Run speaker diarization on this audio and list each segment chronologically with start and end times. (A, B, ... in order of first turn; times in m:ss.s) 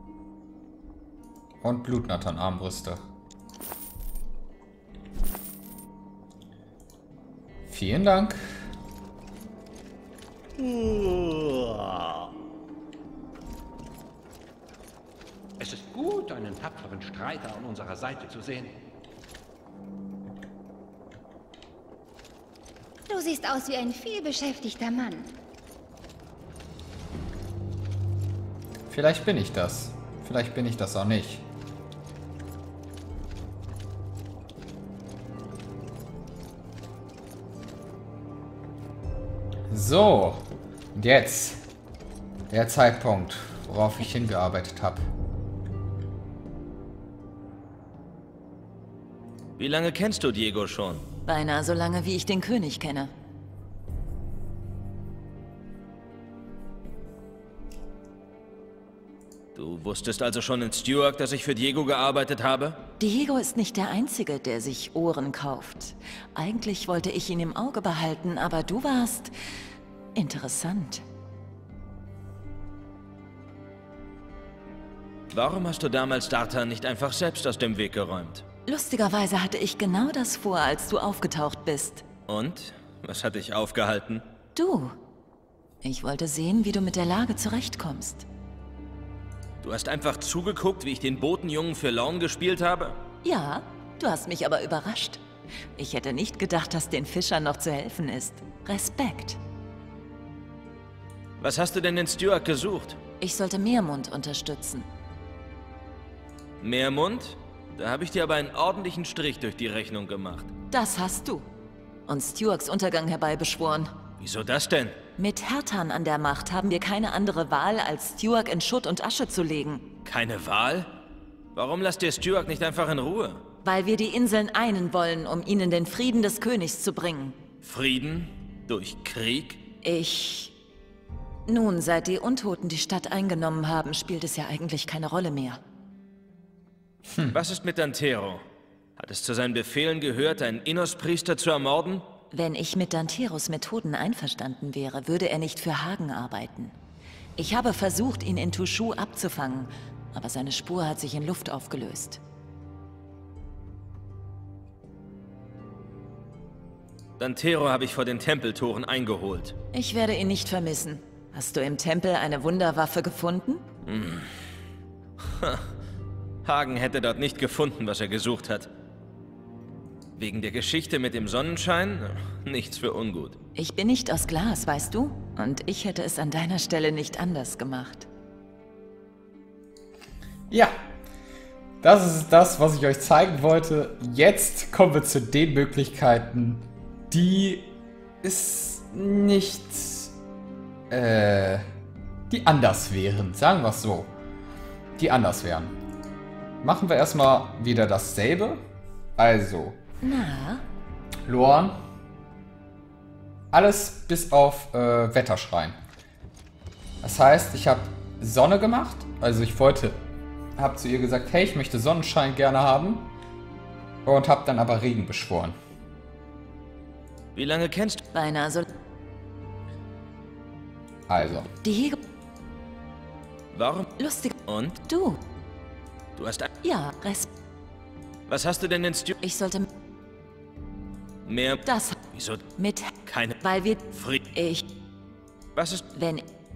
0:01.6-0:03.0 A
0:07.7-0:08.4 A
0:10.6-0:12.2 B
0:15.6-0:18.7 B
0:23.1-0:25.3 C
0:28.9-0:31.4 A
0:39.7-0:41.6 A
0:42.5-0:45.0 A
0:49.6-0:51.0 D
0:51.2-0:53.1 E
0:59.5-1:02.8 D
1:03.0-1:09.3 E
1:10.1-1:11.0 E
1:15.3-1:18.4 D
1:18.7-1:22.0 E
1:22.3-1:24.3 D
1:24.5-1:25.0 E
1:25.8-1:28.2 E
1:29.6-1:33.0 D
1:33.2-1:35.2 E
1:35.8-1:39.4 E
1:41.4-1:43.0 D
1:43.2-1:44.9 E
1:46.6-1:50.5 D
1:50.7-1:51.5 E
1:52.1-1:53.9 E
1:54.2-1:55.0 D
1:55.2-1:59.9 E
2:00.0-2:00.9 D
2:01.5-2:03.4 D
2:03.6-2:07.4 E
2:07.6-2:09.6 D
2:09.8-2:10.5 E
2:11.5-2:15.6 E
2:17.1-2:17.4 A
2:17.3-2:18.4 D
2:19.0-2:22.1 D
2:22.3-2:26.7 E
2:27.4-2:32.2 E
2:37.2-2:39.5 D
2:39.7-2:43.6 E
2:43.8-2:44.3 D
2:45.2-2:45.7 D
2:46.4-2:48.7 D
2:50.2-2:53.4 D
2:53.5-2:58.1 E
3:01.8-3:10.1 A
3:10.9-3:11.6 A
3:12.3-3:14.1 A
3:15.0-3:15.7 A
3:16.6-3:18.6 A
3:19.2-3:19.8 A
3:20.0-3:20.6 E
3:21.3-3:21.8 A
3:23.5-3:25.8 A
3:27.0-3:30.0 A
3:30.6-3:33.1 A
3:34.0-3:35.6 A
3:37.3-3:38.0 D
3:38.1-3:38.7 E
3:41.1-3:41.5 A
3:41.6-3:42.0 E
3:43.5-3:43.9 D
3:44.0-3:44.3 E
3:44.4-3:44.8 D
3:44.9-3:45.2 E
3:46.2-3:46.5 D
3:46.6-3:47.3 E
3:48.3-3:49.2 D
3:49.2-3:49.7 E
3:51.2-3:52.5 D
3:51.6-3:52.0 E
3:52.6-3:53.8 E
3:53.0-3:53.4 D
3:53.9-3:54.2 D
3:54.3-3:54.6 E
3:55.5-3:55.9 D
3:55.9-3:56.2 E